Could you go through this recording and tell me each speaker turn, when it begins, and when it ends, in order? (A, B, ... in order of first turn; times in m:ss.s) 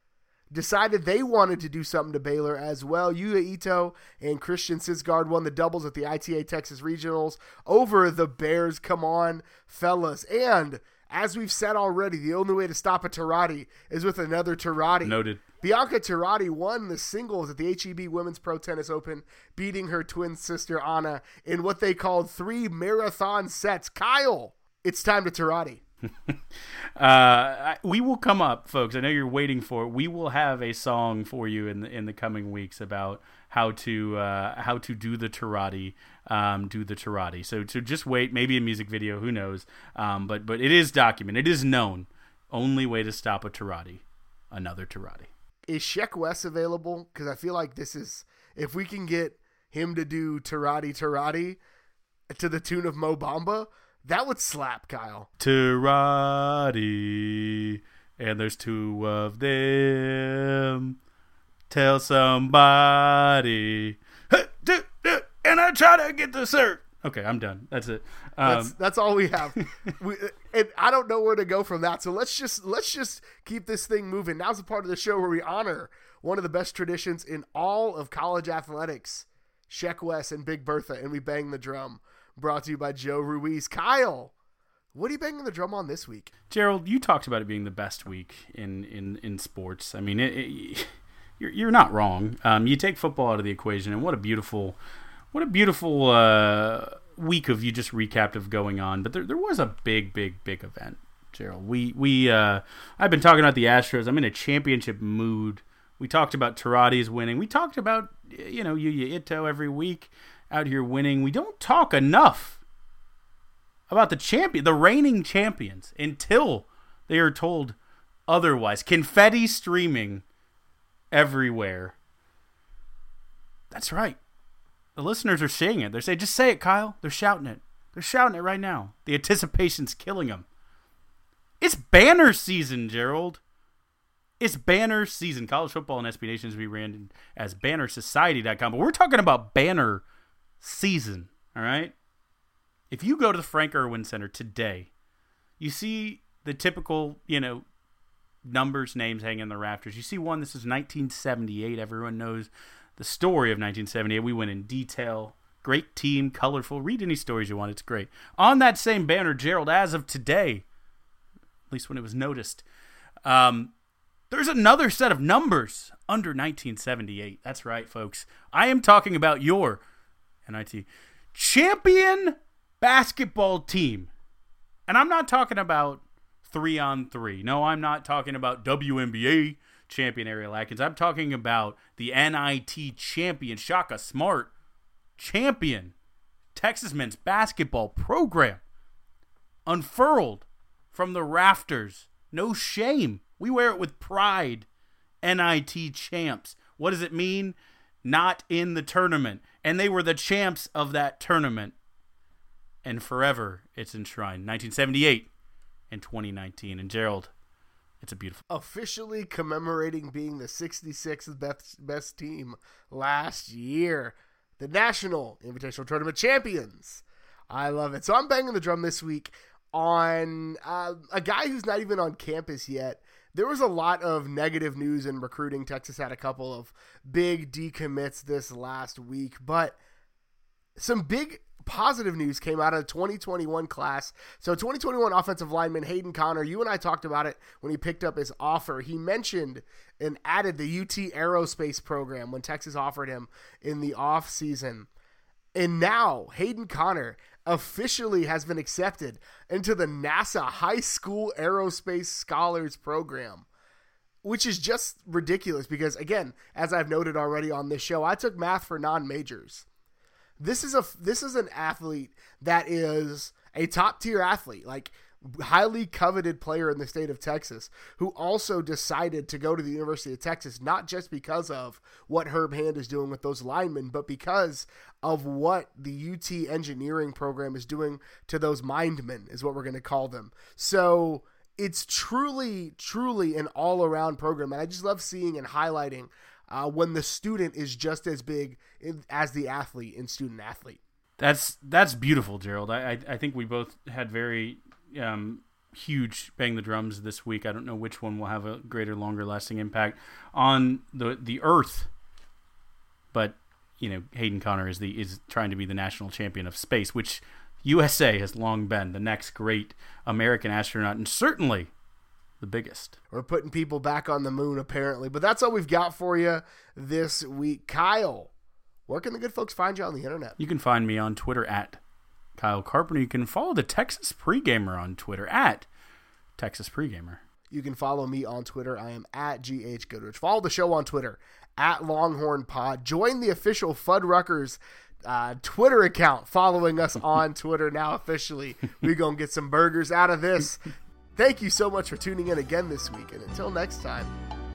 0:00.5-0:25.8 A
0:15.0-0:15.4 B
0:27.0-0:45.3 B
0:45.7-0:51.6 A
0:52.3-0:55.3 A
0:55.4-1:01.0 B
1:01.7-1:08.8 B
1:08.4-1:24.3 A
1:09.6-1:09.9 B
1:24.9-1:26.3 A
1:26.5-1:30.9 B
1:31.4-1:34.8 B
1:35.3-1:52.6 B
1:53.9-1:57.8 B
1:58.3-2:00.2 B
2:01.1-2:02.0 B
2:03.7-2:04.2 B
2:05.0-2:10.5 B
2:11.6-2:13.4 B
2:14.4-2:20.0 B
2:20.6-2:22.0 B
2:22.9-2:24.9 B
2:25.6-2:27.6 B
2:28.5-2:40.6 B
2:41.7-2:42.6 B
2:43.2-2:43.7 B
2:44.3-2:49.8 B
2:50.5-2:54.1 B
2:54.9-3:04.5 B
3:05.2-3:06.0 B
3:06.5-3:08.6 B
3:09.7-3:14.7 B
3:15.2-3:21.8 B
3:22.8-3:25.3 B
3:25.9-3:27.3 B
3:28.0-3:28.4 B
3:28.5-3:49.8 A
3:50.8-4:04.9 A
4:05.6-4:13.5 A
4:14.2-4:19.7 A
4:20.4-4:50.8 A
4:51.2-5:01.9 B
5:03.1-5:11.7 B
5:12.4-5:13.0 B
5:13.1-5:18.3 A
5:18.9-5:20.4 A
5:20.4-5:21.8 B
5:22.4-5:25.7 B
5:26.4-5:27.2 B
5:27.5-5:44.1 A